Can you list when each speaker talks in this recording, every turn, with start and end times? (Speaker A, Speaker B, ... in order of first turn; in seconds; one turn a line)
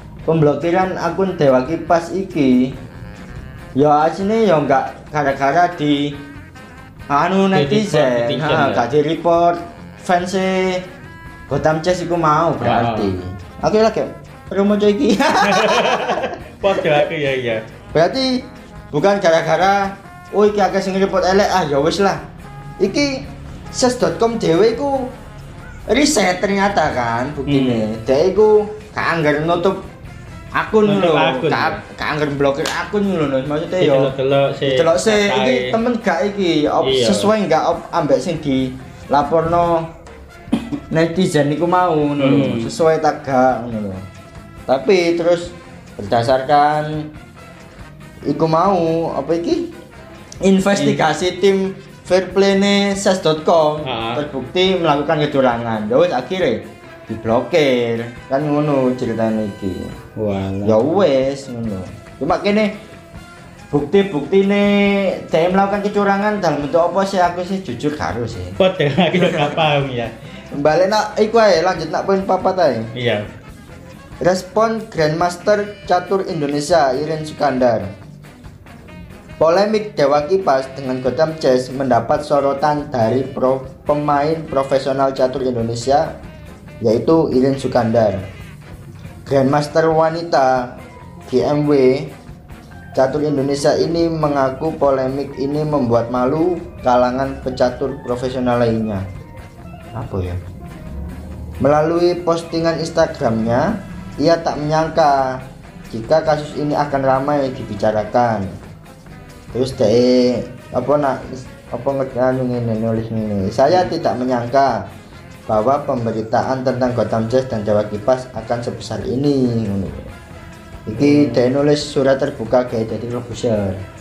Speaker A: 0.2-2.8
Speaker A: 3.8-6.2
Speaker A: 7.1-10.8
Speaker B: 7.5-8.9
Speaker A: 11.5-17.0
Speaker B: 12.6-13.1
Speaker B: 15.4-17.6
Speaker A: 17.9-22.2
Speaker A: 22.8-25.1
Speaker A: 25.9-29.8
Speaker B: 27.5-27.9
Speaker A: 30.6-34.1
Speaker B: 30.9-31.8
Speaker B: 33.8-35.8
Speaker A: 34.6-39.9
Speaker B: 36.8-37.3
Speaker A: 40.9-44.0
Speaker B: 42.2-42.7
Speaker A: 44.7-47.1
Speaker A: 48.2-49.7
Speaker A: 50.4-59.9
Speaker B: 53.8-54.2
Speaker B: 60.2-60.8
Speaker A: 60.6-62.7
Speaker A: 63.7-68.6
Speaker B: 68.6-70.1
Speaker A: 69.1-69.6
Speaker A: 70.5-72.9
Speaker B: 73.0-73.2
Speaker A: 74.2-77.9
Speaker A: 79.4-86.1
Speaker A: 86.8-88.2
Speaker A: 89.2-92.1
Speaker A: 92.9-99.0
Speaker A: 99.9-100.4
Speaker A: 101.6-108.5
Speaker A: 109.5-114.8
Speaker A: 115.5-120.1
Speaker A: 120.9-123.8
Speaker B: 121.0-121.5